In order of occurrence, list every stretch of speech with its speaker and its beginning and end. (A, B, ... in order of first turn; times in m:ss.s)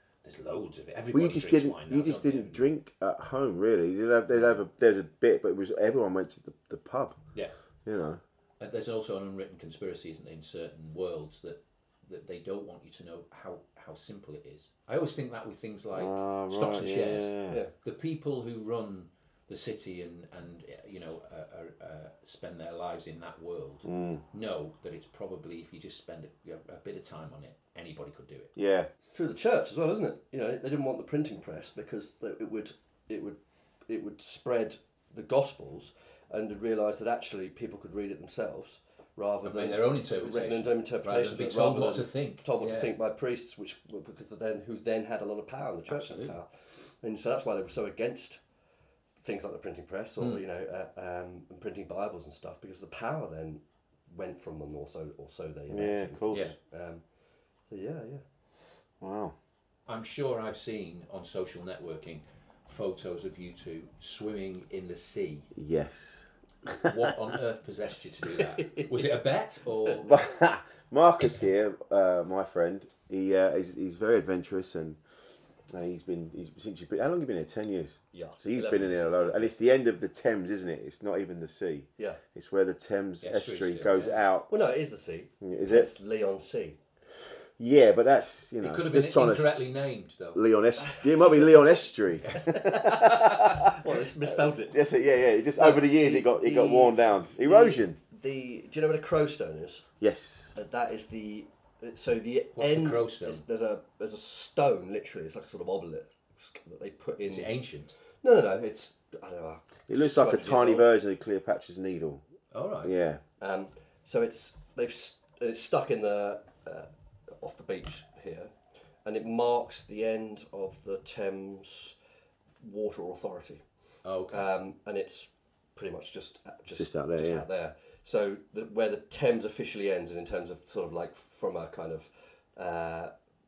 0:00.2-0:02.7 A
0:01.1-0:07.2 B
0:04.3-0:04.6 A
0:07.8-0:08.2 B
0:08.6-0:28.5 A
0:15.9-0:17.6 B
0:23.9-0:24.2 B
0:28.6-0:28.9 B
0:29.1-0:46.5 C
0:39.4-0:43.0 A
0:45.9-0:46.4 A
0:47.0-0:48.4 C
0:49.2-0:57.0 C
0:55.7-0:56.5 B
0:56.3-0:56.6 A
0:57.7-0:58.2 C
0:59.0-0:59.4 B
0:59.9-1:05.5 A
1:05.6-1:06.9 B
1:06.8-1:10.2 A
1:08.6-1:09.0 C
1:10.0-1:15.0 B
1:15.7-1:24.5 B
1:18.1-1:19.5 C
1:23.2-1:24.2 A
1:24.5-1:26.8 C
1:25.4-1:25.9 B
1:27.6-1:29.6 B
1:28.6-1:30.4 A
1:30.3-1:38.0 B
1:30.8-1:31.6 C
1:32.4-1:34.8 C
1:35.5-1:39.9 C
1:40.0-1:40.5 B
1:40.6-1:47.5 C
1:42.5-1:43.4 A
1:47.2-1:47.9 A
1:48.2-1:50.9 C
1:49.9-1:52.2 B
1:52.5-1:53.0 A
1:52.8-1:53.2 B
1:53.4-1:58.5 C
1:59.0-2:02.0 C
2:02.6-2:03.6 C
2:04.0-2:04.4 A
2:04.3-2:13.1 C
2:06.7-2:07.5 B